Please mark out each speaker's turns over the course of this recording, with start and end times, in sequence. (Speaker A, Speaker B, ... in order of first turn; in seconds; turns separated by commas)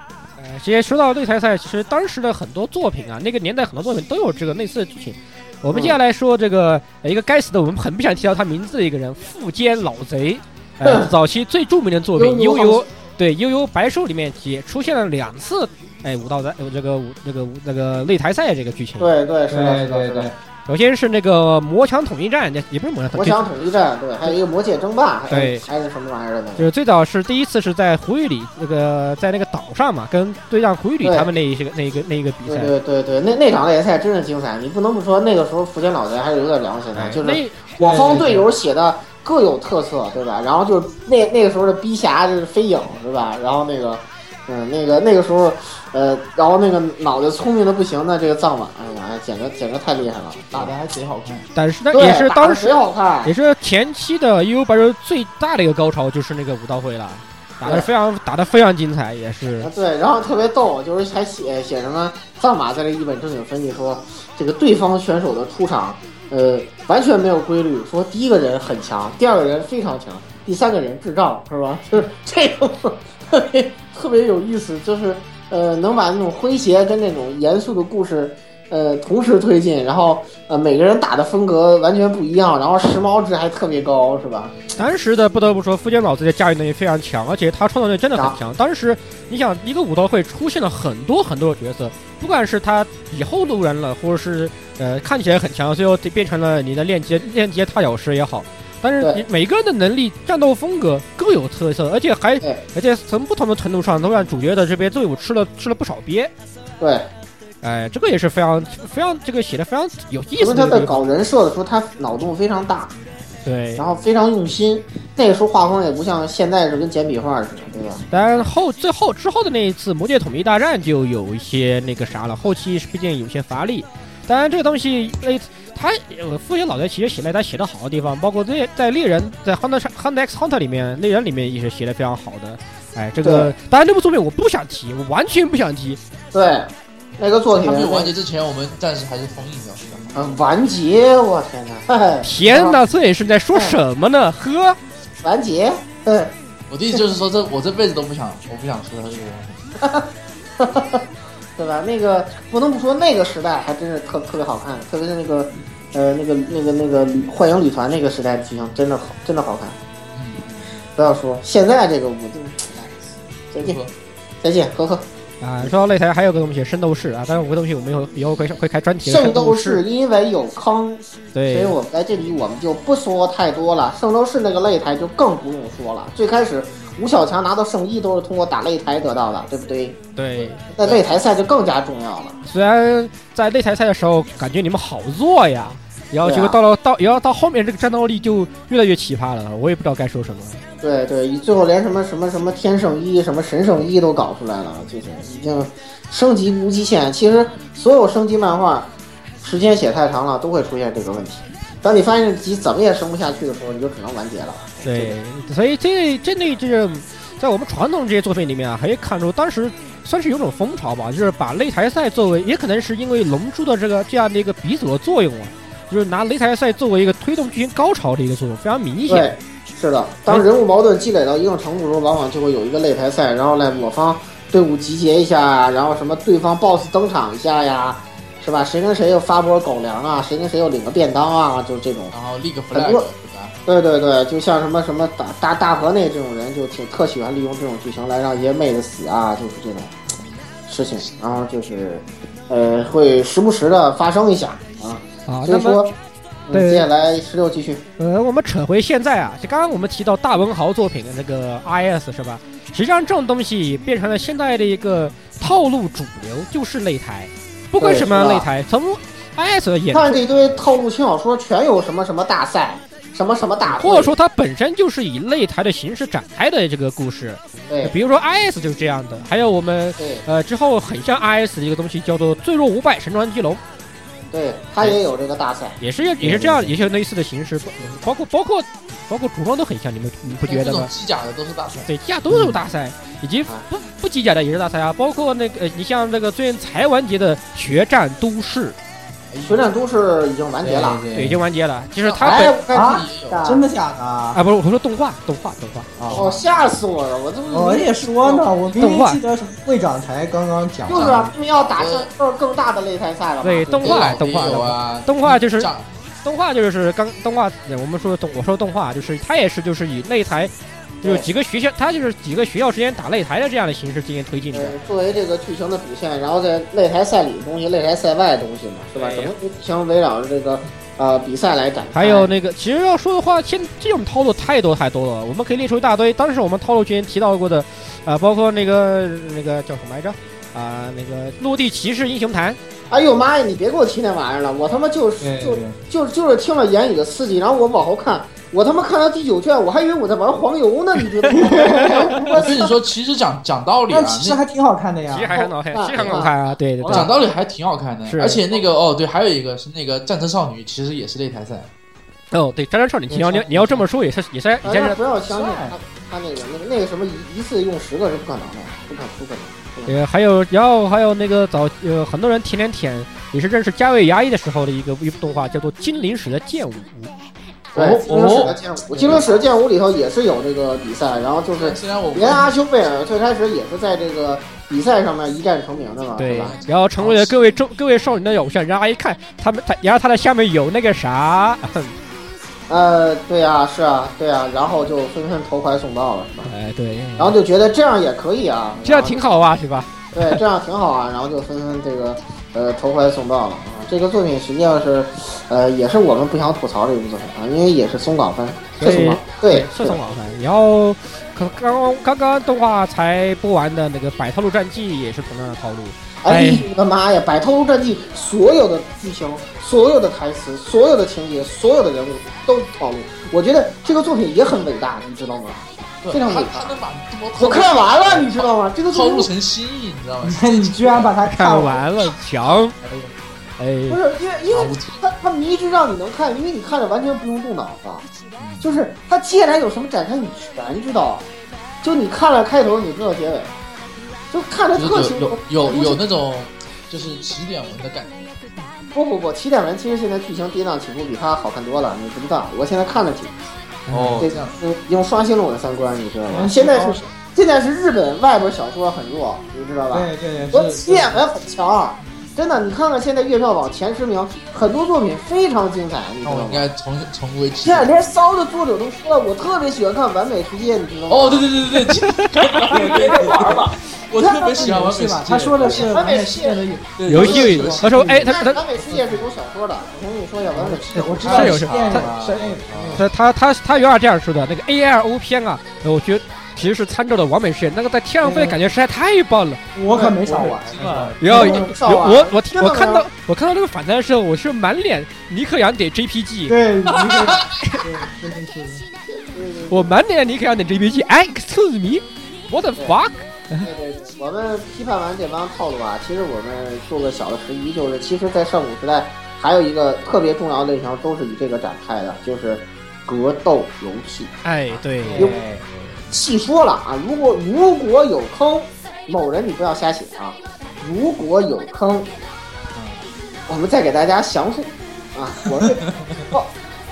Speaker A: 0.4-19.1, Speaker B: 5.7-6.0, Speaker B: 10.8-11.1, Speaker B: 12.2-12.8, Speaker B: 19.0-20.3, Speaker C: 19.5-20.4, Speaker A: 20.7-23.5, Speaker B: 23.1-26.7, Speaker A: 25.3-25.6, Speaker A: 26.6-32.7, Speaker B: 31.0-31.3, Speaker B: 32.5-50.8, Speaker A: 37.0-38.4, Speaker C: 37.8-38.5, Speaker D: 50.5-51.5, Speaker A: 51.5-52.7, Speaker B: 51.9-53.3, Speaker A: 53.2-59.7, Speaker B: 59.6-84.5, Speaker A: 84.8-106.3, Speaker B: 106.8-107.1, Speaker A: 107.6-111.0, Speaker B: 110.4-113.0, Speaker A: 113.5-113.8, Speaker B: 113.8-118.0, Speaker A: 118.1-136.0, Speaker B: 133.2-133.5, Speaker B: 136.3-138.1, Speaker D: 137.6-140.3, Speaker B: 140.1-142.8, Speaker A: 142.2-144.8, Speaker B: 145.2-146.3, Speaker D: 146.7-149.7, Speaker B: 149.8-150.1, Speaker B: 150.6-151.0, Speaker B: 151.6-159.8, Speaker D: 160.2-160.7, Speaker B: 161.0-162.9, Speaker B: 163.5-163.8, Speaker D: 163.6-163.9, Speaker B: 164.4-165.1, Speaker A: 165.4-169.8, Speaker B: 169.0-182.4, Speaker A: 171.3-171.8, Speaker A: 180.2-180.7, Speaker A: 182.5-190.6, Speaker B: 186.2-186.6, Speaker B: 190.8-198.9, Speaker B: 199.4-205.2, Speaker A: 204.8-219.3, Speaker B: 219.1-232.1, Speaker D: 232.1-233.6, Speaker B: 232.7-233.1, Speaker B: 233.7-239.9, Speaker B: 240.7-245.9, Speaker A: 245.3-245.9, Speaker B: 246.5-247.8, Speaker A: 246.5-246.8, Speaker A: 248.0-260.2, Speaker B: 257.8-258.5, Speaker B: 259.9-264.1, Speaker A: 263.7-273.6, Speaker B: 267.7-267.9, Speaker B: 270.0-270.2, Speaker B: 274.3-275.8, Speaker A: 275.8-280.9, Speaker C: 276.2-276.7, Speaker D: 280.5-281.9, Speaker A: 281.9-288.8, Speaker C: 282.3-282.6, Speaker D: 289.3-289.7, Speaker B: 289.4-291.0, Speaker C: 290.6-291.4, Speaker A: 291.1-292.6, Speaker D: 292.0-293.5, Speaker B: 292.2-293.6, Speaker C: 292.7-294.4, Speaker A: 294.3-295.9, Speaker C: 296.0-296.3, Speaker D: 296.1-296.4, Speaker B: 296.1-298.5, Speaker C: 297.5-301.3, Speaker A: 298.8-299.2, Speaker B: 300.9-304.1, Speaker D: 300.9-302.1, Speaker A: 303.4-305.7, Speaker D: 303.8-306.0, Speaker A: 306.2-314.8, Speaker B: 314.5-322.3, Speaker A: 318.9-319.3, Speaker A: 321.9-332.6, Speaker B: 332.9-342.8, Speaker C: 335.2-335.8, Speaker A: 341.4-341.9, Speaker C: 341.4-341.7, Speaker D: 342.3-344.4, Speaker C: 343.9-345.4, Speaker A: 345.1-347.1, Speaker B: 345.3-346.3, Speaker C: 346.8-347.1, Speaker D: 346.9-351.7, Speaker A: 348.1-348.4, Speaker A: 352.3-355.0, Speaker C: 353.1-353.8, Speaker B: 354.6-359.9, Speaker C: 355.3-355.8, Speaker A: 359.9-367.1, Speaker A: 367.8-368.6, Speaker B: 367.8-376.6, Speaker D: 368.1-369.3, Speaker D: 371.5-372.6, Speaker A: 376.2-381.9, Speaker D: 376.3-377.4, Speaker B: 382.7-386.5, Speaker A: 386.5-387.4, Speaker B: 387.2-389.2, Speaker A: 388.8-390.4, Speaker B: 390.1-400.0, Speaker A: 398.8-406.7, Speaker B: 406.2-416.7, Speaker D: 416.0-421.1, Speaker B: 417.4-419.3, Speaker C: 420.2-422.0, Speaker A: 421.3-422.8, Speaker D: 422.8-423.2, Speaker A: 423.6-424.0, Speaker B: 423.9-428.1, Speaker D: 424.5-425.0, Speaker D: 428.4-428.7, Speaker B: 428.6-431.3, Speaker B: 431.8-433.6, Speaker B: 434.3-436.0, Speaker D: 434.8-438.4, Speaker B: 438.9-443.4, Speaker A: 443.9-444.2, Speaker D: 443.9-444.6, Speaker C: 443.9-444.2, Speaker B: 444.2-456.7, Speaker C: 446.3-447.1, Speaker C: 449.9-451.2, Speaker D: 456.2-457.9, Speaker B: 457.6-461.5, Speaker D: 461.1-465.9, Speaker B: 462.7-463.7, Speaker C: 464.2-468.2, Speaker B: 464.2-464.9, Speaker B: 465.6-466.6, Speaker D: 467.0-468.3, Speaker A: 467.1-468.6, Speaker B: 467.1-471.6, Speaker C: 468.8-469.2, Speaker C: 470.5-473.1, Speaker D: 471.3-473.1, Speaker A: 471.3-479.6, Speaker C: 478.2-478.6, Speaker C: 479.8-481.8, Speaker D: 480.1-481.2, Speaker A: 481.2-486.6, Speaker B: 481.2-483.1, Speaker C: 486.5-488.9, Speaker B: 489.1-489.9, Speaker A: 489.7-493.7, Speaker B: 493.6-504.4, Speaker A: 504.4-505.3, Speaker C: 505.0-505.7, Speaker B: 506.1-512.1, Speaker D: 512.8-513.0, Speaker B: 513.5-516.5, Speaker D: 515.8-516.3